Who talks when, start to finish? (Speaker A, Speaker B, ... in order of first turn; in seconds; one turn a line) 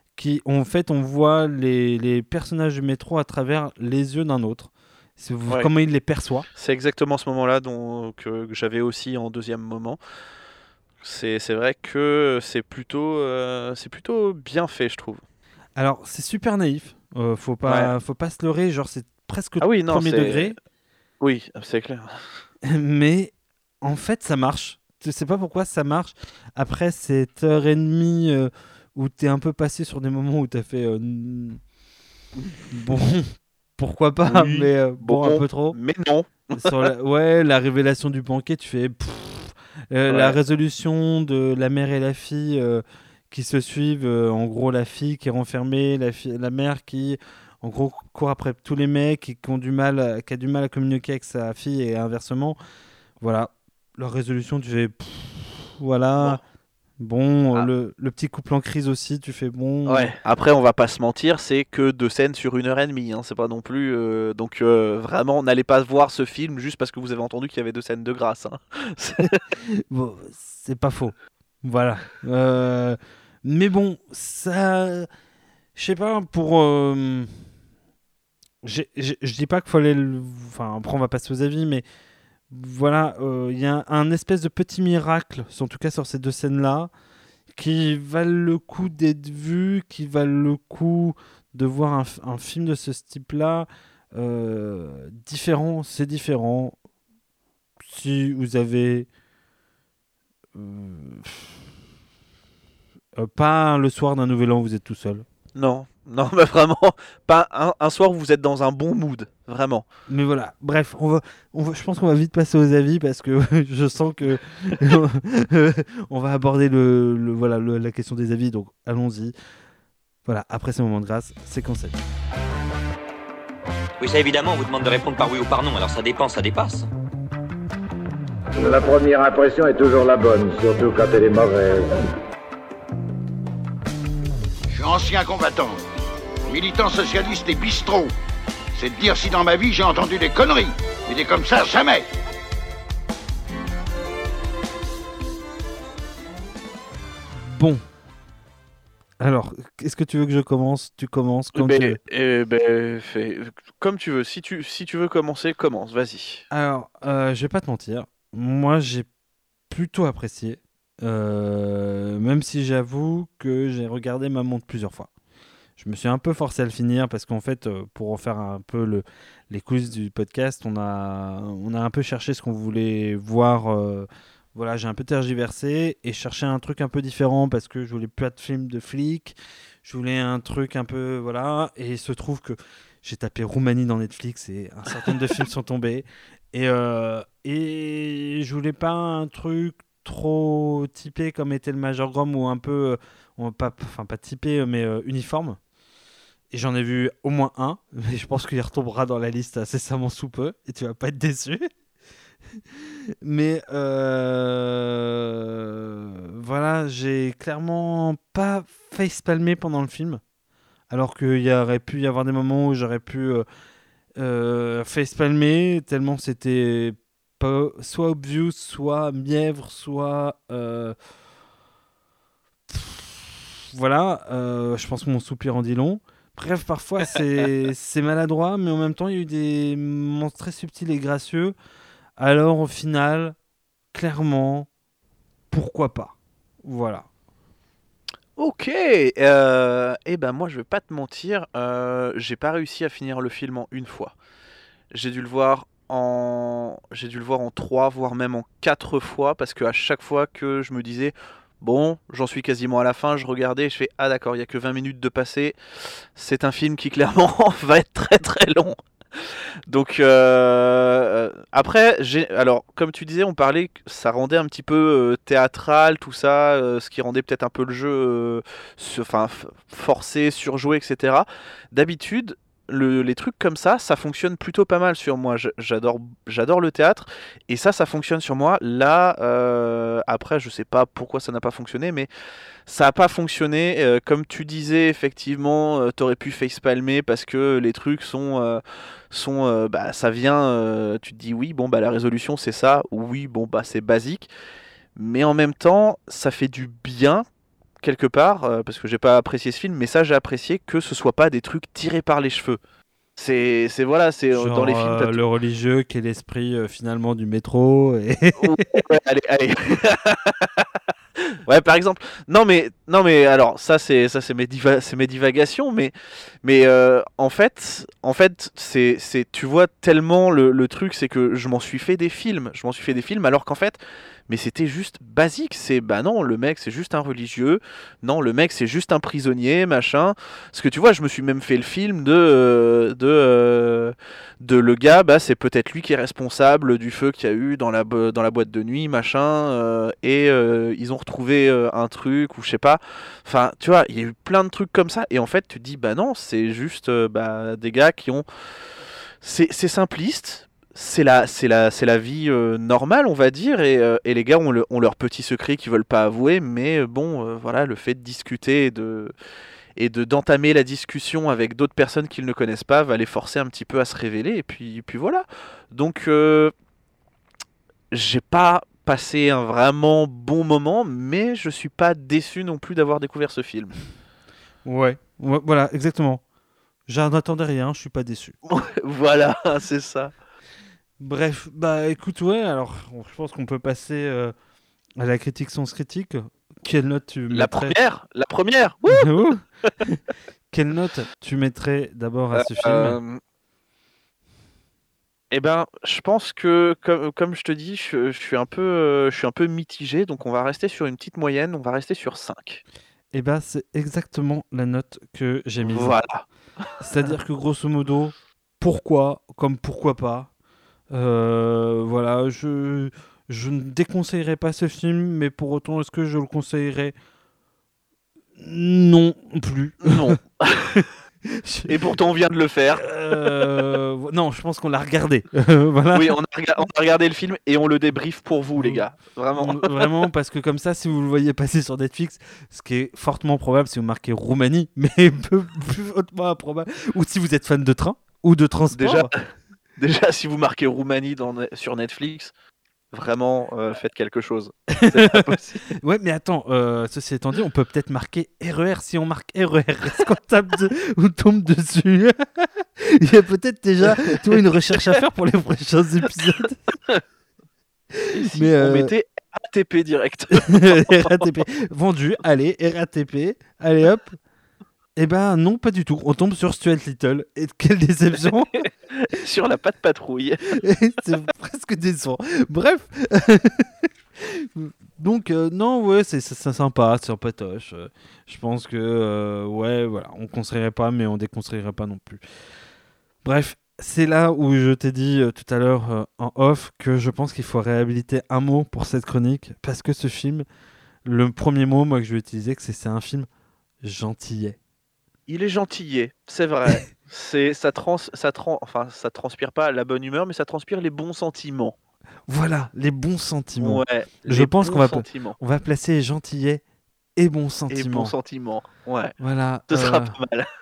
Speaker A: 0.2-6.5
Speaker B: 6.6-10.0
Speaker B: 11.0-15.2
Speaker A: 15.8-20.6
Speaker B: 17.7-17.9
Speaker B: 19.6-20.5
Speaker B: 21.2-22.1
Speaker A: 22.6-31.6
Speaker A: 32.7-35.8
Speaker B: 34.2-36.9
Speaker A: 36.6-52.6
Speaker B: 40.1-40.4
Speaker A: 53.2-56.4
Speaker A: 57.0-60.1
Speaker B: 59.9-69.4
Speaker A: 69.6-75.1
Speaker A: 75.8-77.4
Speaker A: 78.6-81.8
Speaker A: 82.5-86.9
Speaker A: 87.5-96.8
Speaker A: 97.8-99.1
Speaker A: 100.5-101.6
Speaker A: 103.2-105.3
Speaker B: 105.6-109.8
Speaker A: 110.1-119.3
Speaker A: 120.2-122.0
Speaker C: 124.0-126.8
Speaker D: 128.9-131.6
Speaker E: 134.8-135.8
Speaker E: 136.5-138.1
Speaker E: 138.8-142.1
Speaker A: 147.4-147.8
Speaker A: 149.2-152.0
Speaker B: 151.6-156.4
Speaker A: 156.5-159.1
Speaker A: 159.7-165.1
Speaker A: 165.8-195.6
Speaker A: 196.5-201.7
Speaker A: 202.8-210.2
Speaker A: 210.9-213.5
Speaker A: 214.2-221.0
Speaker A: 222.7-231.6
Speaker A: 232.2-233.4
Speaker A: 233.9-234.7
Speaker A: 235.5-237.1
Speaker B: 238.4-244.1
Speaker B: 244.9-255.6
Speaker B: 256.2-258.8
Speaker B: 259.7-282.1
Speaker B: 282.7-294.3
Speaker B: 295.0-297.2
Speaker B: 297.8-302.6
Speaker B: 303.2-305.2
Speaker A: 304.3-308.8
Speaker B: 308.4-310.7
Speaker B: 311.5-315.9
Speaker B: 316.4-323.8
Speaker B: 324.3-348.2
Speaker B: 349.2-359.1
Speaker B: 359.8-366.5
Speaker B: 367.9-373.8
Speaker A: 374.6-376.2
Speaker A: 376.9-378.4
Speaker B: 378.5-380.1
Speaker A: 381.0-384.3
Speaker A: 385.0-387.8
Speaker B: 387.3-389.7
Speaker A: 388.9-390.0
Speaker A: 390.5-393.0
Speaker B: 392.3-393.2
Speaker B: 395.3-402.6
Speaker A: 403.1-406.0
Speaker B: 405.6-406.2
Speaker A: 406.8-410.3
Speaker A: 410.9-416.9
Speaker A: 418.4-420.2
Speaker B: 419.8-420.8
Speaker A: 420.8-421.8
Speaker B: 421.7-423.7
Speaker A: 422.8-426.2
Speaker B: 425.9-429.9
Speaker A: 428.6-428.8
Speaker A: 429.3-439.1
Speaker B: 438.7-439.1
Speaker B: 439.8-442.3
Speaker B: 442.9-445.7
Speaker A: 444.7-456.6
Speaker B: 453.8-454.4
Speaker A: 457.9-458.9
Speaker B: 458.1-461.3
Speaker A: 460.4-464.2
Speaker A: 465.0-468.7
Speaker B: 468.6-470.6
Speaker A: 470.5-482.2
Speaker A: 483.2-490.5
Speaker A: 491.1-493.3
Speaker A: 493.8-494.6
Speaker B: 495.3-501.8
Speaker A: 502.3-506.6
Speaker B: 503.6-505.4
Speaker A: 507.2-508.1
Speaker B: 507.7-509.1
Speaker A: 509.2-510.2
Speaker B: 509.7-510.5